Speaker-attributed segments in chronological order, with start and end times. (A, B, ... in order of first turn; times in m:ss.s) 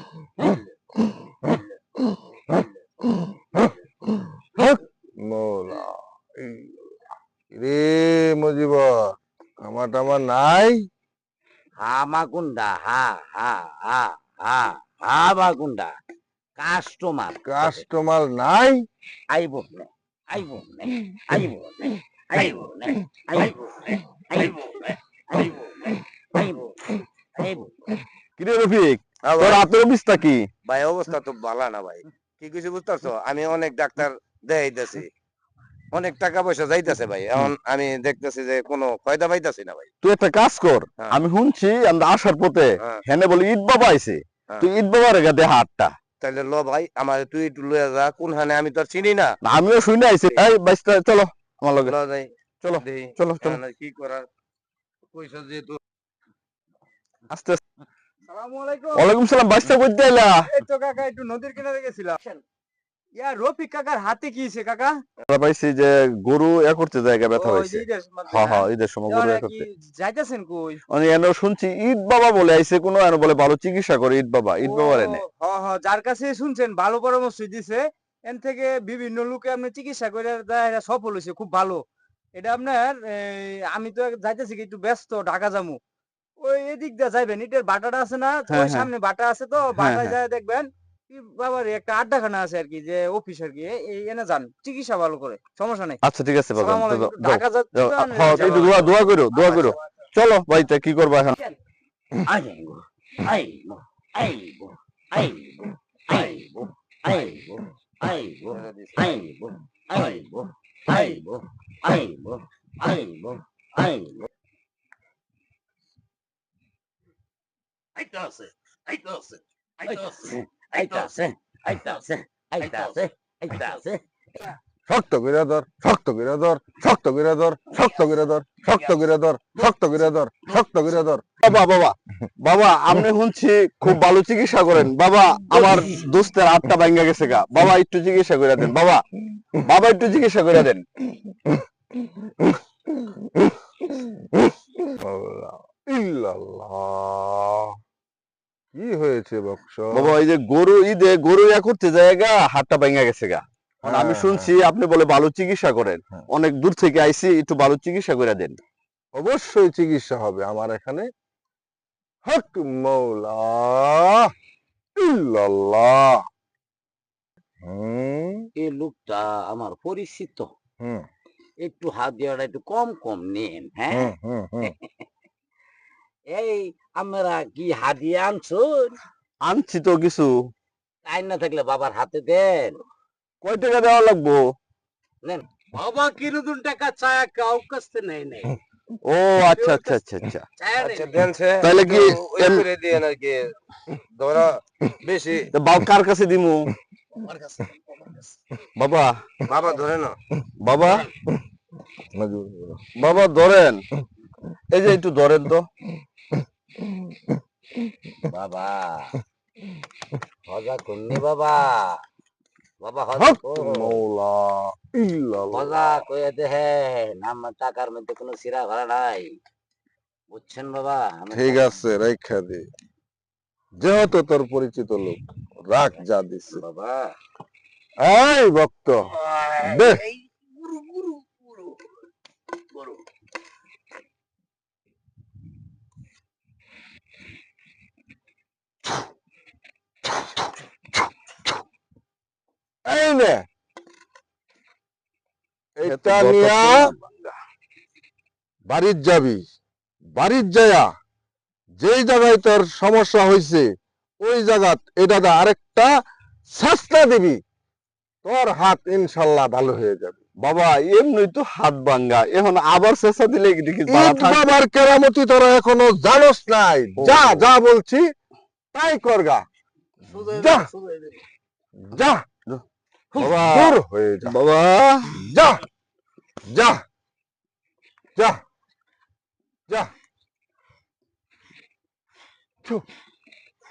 0:01.3-0:01.6 A
0:03.1-0:03.6 A
0:04.4-0:06.7 A
0:07.5-0:08.9 A
0:09.6-0:10.8 A
0:11.8-0:16.0 B
0:16.6-0:17.8 B
0:17.4-0:18.8 A
0:19.3-0:23.6 B
0:24.3-0:26.8 B
0:27.4-0:27.8 B
0:28.4-0:30.4 C
0:29.3-0:29.6 D
0:30.6-0:35.1 D
0:35.9-0:39.9 D
0:40.0-0:45.9 C
0:46.2-0:49.3 D
0:49.4-0:51.9 C
0:51.8-0:54.2 D
0:52.6-0:53.6 C
0:55.1-0:55.8 D
0:57.3-0:57.6 C
0:58.3-0:59.1 E
0:58.9-1:00.4 C
1:00.4-1:02.4 E
1:03.2-1:05.0 E
1:05.3-1:09.6 C
1:07.4-1:10.8 E
1:10.9-1:15.2 C
1:14.6-1:21.8 E
1:22.4-1:25.8 E
1:26.4-1:36.0 E
1:28.5-1:28.9 C
1:29.8-1:30.1 C
1:36.0-1:41.4 C
1:36.5-1:38.9 E
1:38.3-1:39.7 D
1:42.2-1:54.3 B
1:48.5-1:49.1 D
1:59.8-2:04.0 B
2:04.9-2:11.2 A
2:11.4-2:20.8 C
2:23.1-2:23.5 A
2:24.5-2:27.7 A
2:28.7-2:30.2 A
2:29.9-2:38.6 C
2:33.8-2:34.5 A
2:39.1-2:41.1 A
2:42.2-2:44.3 A
2:45.0-2:46.2 A
2:47.6-2:48.4 A
2:48.6-2:50.5 B
2:51.6-2:54.1 B
2:53.9-2:54.7 A
2:56.3-2:59.0 B
2:59.4-3:00.3 C
3:01.0-3:02.8 B
3:03.4-3:04.4 C
3:05.7-3:08.5 E
3:09.0-3:10.4 C
3:09.5-3:10.0 E
3:10.6-3:11.1 E
3:10.8-3:13.5 D
3:11.6-3:12.7 C
3:14.2-3:15.5 D
3:15.5-3:16.6 C
3:18.8-3:19.1 C
3:19.5-3:20.2 D
3:20.6-3:21.0 C
3:22.0-3:22.8 A
3:23.0-3:23.8 C
3:24.7-3:25.7 C
3:26.8-3:27.2 A
3:28.3-3:29.1 B
3:30.5-3:32.0 B
3:32.8-3:34.0 B
3:33.2-3:35.9 A
3:35.5-3:39.3 B
3:40.3-3:41.8 B
3:41.3-3:42.6 A
3:43.8-3:46.6 A
3:45.9-3:47.1 B
3:48.0-3:50.0 A
3:49.4-3:49.9 B
3:50.7-3:51.2 B
4:02.8-4:03.4 A
4:05.8-4:06.8 A
4:05.8-4:07.3 C
4:08.7-4:09.4 A
4:10.2-4:10.9 A
4:11.8-4:13.6 A
4:14.2-4:15.9 A
4:16.5-4:17.4 A
4:18.2-4:20.2 A
4:20.4-4:24.5 C
4:23.9-4:28.0 A
4:27.0-4:27.5 C
4:28.7-4:29.4 A
4:30.1-4:31.1 E
4:30.2-4:30.7 A
4:31.8-4:32.2 A
4:33.2-4:34.4 A
4:33.2-4:35.2 C
4:35.1-4:35.6 A
4:36.5-4:36.8 A